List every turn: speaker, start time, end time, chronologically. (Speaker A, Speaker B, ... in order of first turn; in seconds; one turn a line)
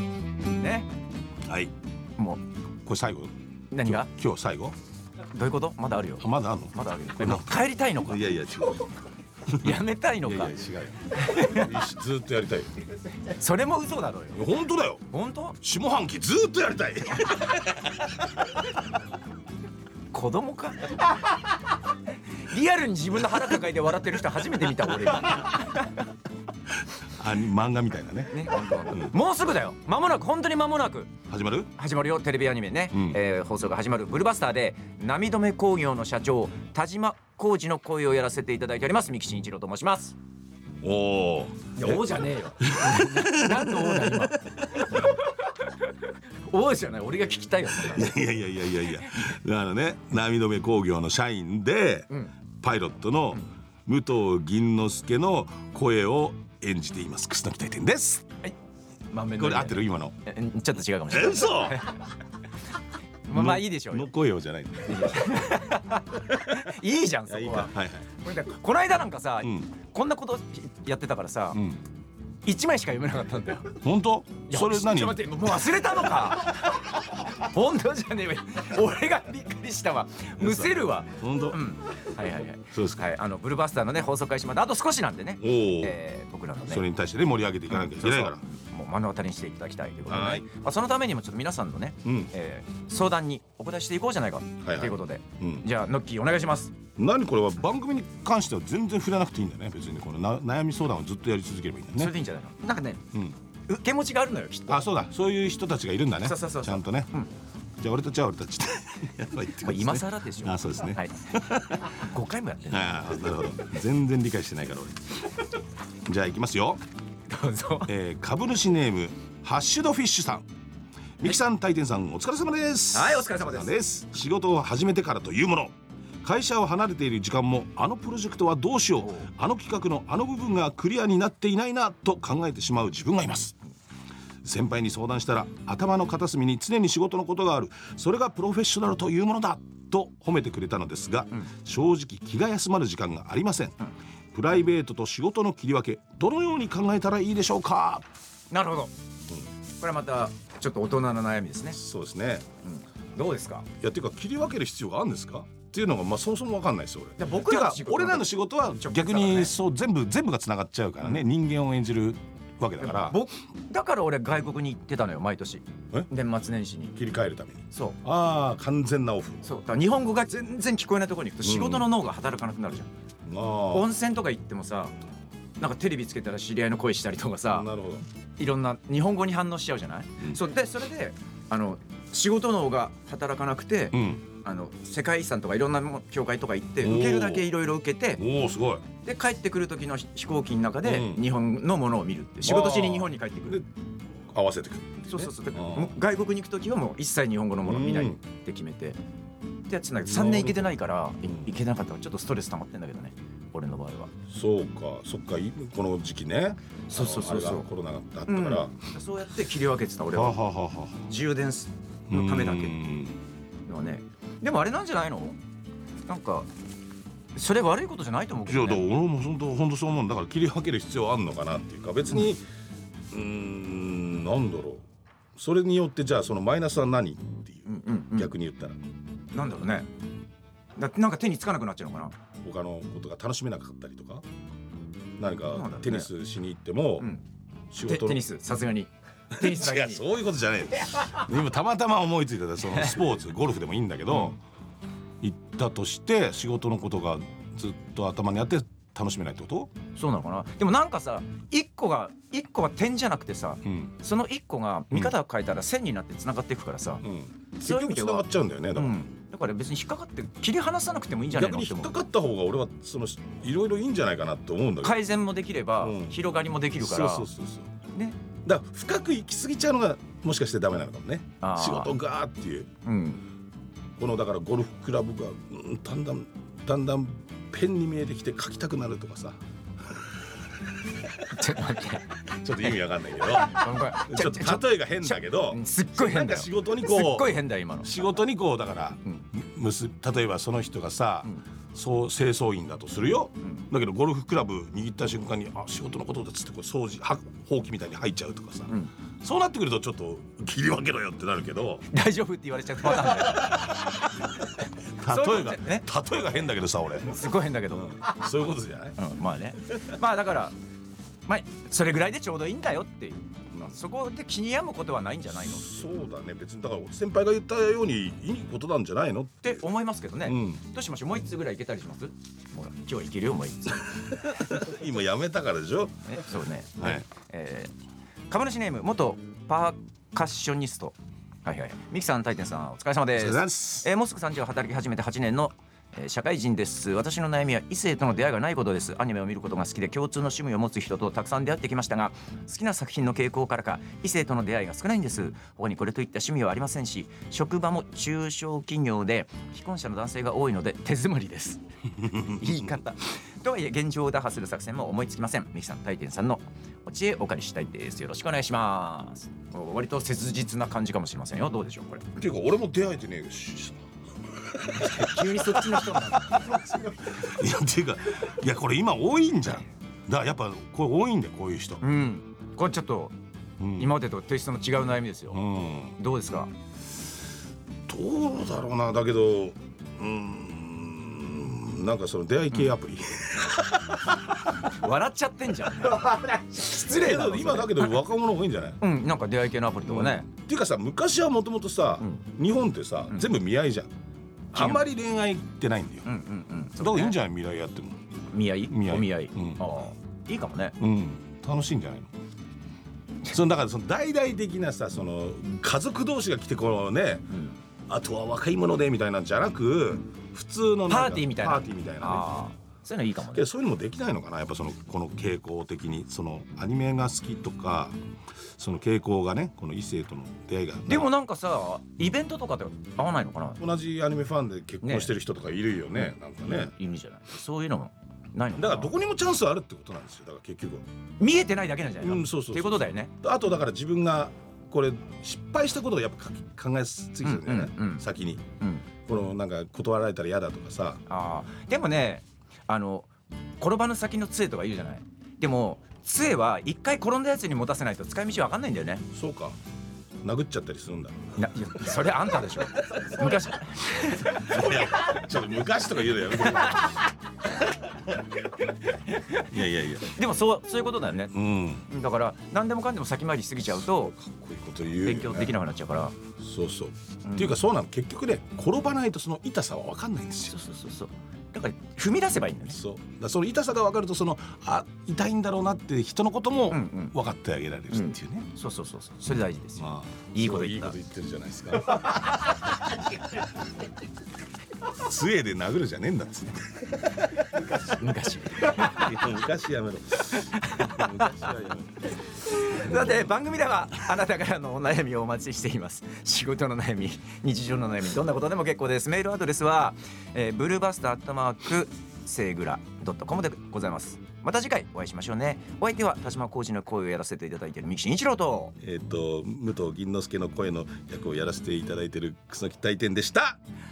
Speaker A: 0.5-0.9
Speaker B: 1.4-1.7
Speaker A: 2.2-2.4
Speaker B: 2.8-4.8
Speaker A: 3.7-4.1
Speaker A: 5.3-8.2
Speaker B: 6.2-8.9
Speaker A: 9.5-10.6
Speaker B: 9.5-12.7
Speaker A: 11.1-11.7
Speaker A: 13.1-14.4
Speaker B: 14.3-15.1
Speaker A: 15.1-15.6
Speaker B: 15.6-18.2
Speaker A: 20.1-21.5
Speaker A: 22.4-26.0
Speaker B: 26.8-29.1
Speaker A: 28.3-31.1
Speaker B: 31.3-31.7
Speaker A: 31.8-40.2
Speaker B: 32.9-33.2
Speaker B: 40.8-45.1
Speaker A: 41.8-48.1
Speaker B: 47.8-58.3
Speaker A: 48.9-49.3
Speaker A: 59.1-62.0
Speaker B: 59.3-60.1
Speaker B: 61.1-61.8
Speaker A: 63.3-64.1
Speaker B: 63.3-65.5
Speaker A: 64.8-71.6
Speaker B: 66.2-66.7
Speaker B: 67.3-68.0
Speaker B: 69.4-69.7
Speaker B: 71.5-71.8
Speaker A: 72.4-73.8
Speaker B: 73.8-75.4
Speaker A: 74.5-86.8
Speaker B: 80.4-81.6
Speaker B: 82.7-83.0
Speaker B: 85.4-86.0
Speaker B: 86.7-88.4
Speaker A: 87.7-96.8
Speaker B: 90.1-90.4
Speaker B: 92.0-92.3
Speaker B: 94.6-95.7
Speaker B: 97.0-102.1
Speaker A: 102.0-103.0
Speaker A: 103.7-104.9
Speaker B: 104.7-107.1
Speaker A: 106.2-107.3
Speaker B: 107.8-112.0
Speaker A: 109.6-111.2
Speaker A: 111.8-113.0
Speaker B: 112.7-115.1
Speaker B: 116.1-116.8
Speaker A: 117.3-117.9
Speaker B: 117.9-120.5
Speaker B: 121.2-133.6
Speaker A: 122.9-123.8
Speaker A: 129.0-129.3
Speaker B: 134.4-143.8
Speaker B: 144.3-148.1
Speaker A: 148.5-148.9
Speaker A: 149.8-151.8
Speaker B: 151.7-152.5
Speaker A: 152.6-153.7
Speaker B: 153.8-163.2
Speaker A: 157.2-159.5
Speaker A: 162.8-166.9
Speaker B: 166.9-169.4
Speaker A: 169.4-172.9
Speaker B: 171.4-171.9
Speaker B: 173.2-173.9
Speaker A: 173.7-174.9
Speaker A: 175.6-177.7
Speaker B: 177.5-178.1
Speaker A: 178.4-188.2
Speaker B: 183.9-184.2
Speaker B: 186.8-187.5
Speaker B: 188.2-188.8
Speaker A: 189.0-193.6
Speaker B: 190.8-191.2
Speaker B: 192.4-193.7
Speaker B: 194.3-195.9
Speaker A: 195.1-199.0
Speaker B: 197.6-198.2
Speaker A: 199.7-204.1
Speaker B: 200.0-200.7
Speaker B: 204.3-208.8
Speaker A: 206.9-207.7
Speaker A: 208.3-210.4
Speaker B: 210.2-211.1
Speaker A: 211.1-212.8
Speaker B: 212.1-213.2
Speaker A: 213.7-215.4
Speaker A: 216.1-216.5
Speaker A: 217.3-218.8
Speaker B: 218.5-222.4
Speaker B: 223.1-228.8
Speaker A: 227.7-228.3
Speaker A: 229.3-229.9
Speaker A: 230.8-232.2
Speaker B: 232.4-234.2
Speaker B: 235.2-237.1
Speaker A: 235.5-236.1
Speaker B: 237.7-238.2
Speaker A: 237.8-240.0
Speaker B: 239.3-244.4
Speaker A: 242.6-243.0
Speaker A: 244.1-244.4
Speaker B: 245.2-249.7
Speaker A: 249.9-257.0
Speaker B: 253.6-253.9
Speaker B: 257.0-259.0
Speaker A: 257.6-261.9
Speaker B: 261.3-265.0
Speaker A: 264.8-267.3
Speaker B: 265.8-267.7
Speaker A: 267.9-268.2
Speaker B: 268.4-272.7
Speaker A: 271.4-271.9
Speaker A: 272.8-273.2
Speaker B: 274.0-280.3
Speaker A: 281.2-282.2
Speaker B: 282.2-301.9
Speaker A: 283.3-287.9
Speaker A: 301.9-303.9
Speaker B: 303.0-309.0
Speaker A: 305.0-305.9
Speaker A: 307.0-308.1
Speaker A: 309.0-310.6
Speaker A: 311.3-315.8
Speaker B: 315.3-319.6
Speaker A: 319.4-324.3
Speaker B: 320.2-320.6
Speaker B: 323.9-327.1
Speaker A: 326.1-327.7
Speaker A: 328.3-362.2
Speaker B: 333.2-333.9
Speaker B: 352.0-352.8
Speaker B: 362.2-371.8
Speaker A: 364.7-366.9
Speaker A: 371.8-373.1
Speaker B: 373.6-373.9
Speaker A: 373.8-375.4
Speaker B: 375.3-376.0
Speaker A: 376.0-376.5
Speaker B: 377.9-384.6
Speaker A: 384.7-387.9
Speaker B: 386.7-388.8
Speaker A: 388.8-390.3
Speaker B: 389.9-393.9
Speaker B: 394.5-396.1
Speaker A: 394.6-394.8
Speaker A: 396.1-397.2
Speaker B: 396.8-398.0
Speaker A: 398.3-400.8
Speaker B: 398.7-399.6
Speaker B: 400.8-402.1
Speaker B: 403.3-407.4
Speaker A: 407.3-407.6
Speaker B: 407.9-412.4
Speaker A: 410.9-413.4
Speaker B: 413.3-417.9
Speaker B: 418.6-421.1
Speaker A: 420.9-423.6
Speaker B: 423.6-426.7
Speaker A: 424.8-425.1
Speaker A: 426.0-428.9
Speaker B: 428.6-430.8
Speaker A: 431.2-433.1
Speaker B: 432.0-438.4
Speaker A: 437.2-438.0
Speaker A: 438.6-438.9
Speaker B: 439.1-441.0
Speaker A: 441.1-449.0
Speaker B: 449.1-449.6
Speaker B: 450.2-451.3
Speaker A: 451.4-454.8
Speaker B: 454.2-457.0
Speaker A: 458.9-459.5
Speaker B: 459.5-460.1
Speaker A: 460.1-461.3
Speaker B: 461.3-461.9
Speaker A: 461.9-464.1
Speaker B: 464.2-465.6
Speaker A: 465.1-466.1
Speaker B: 466.4-470.6
Speaker A: 467.2-467.5
Speaker A: 470.5-472.8
Speaker B: 472.7-478.5
Speaker A: 476.7-477.1
Speaker A: 477.9-480.9
Speaker B: 479.8-482.5
Speaker B: 484.9-486.9
Speaker A: 487.7-489.2
Speaker B: 488.7-492.1
Speaker A: 490.2-491.5
Speaker A: 492.5-508.7
Speaker B: 492.7-493.0
Speaker B: 508.8-513.6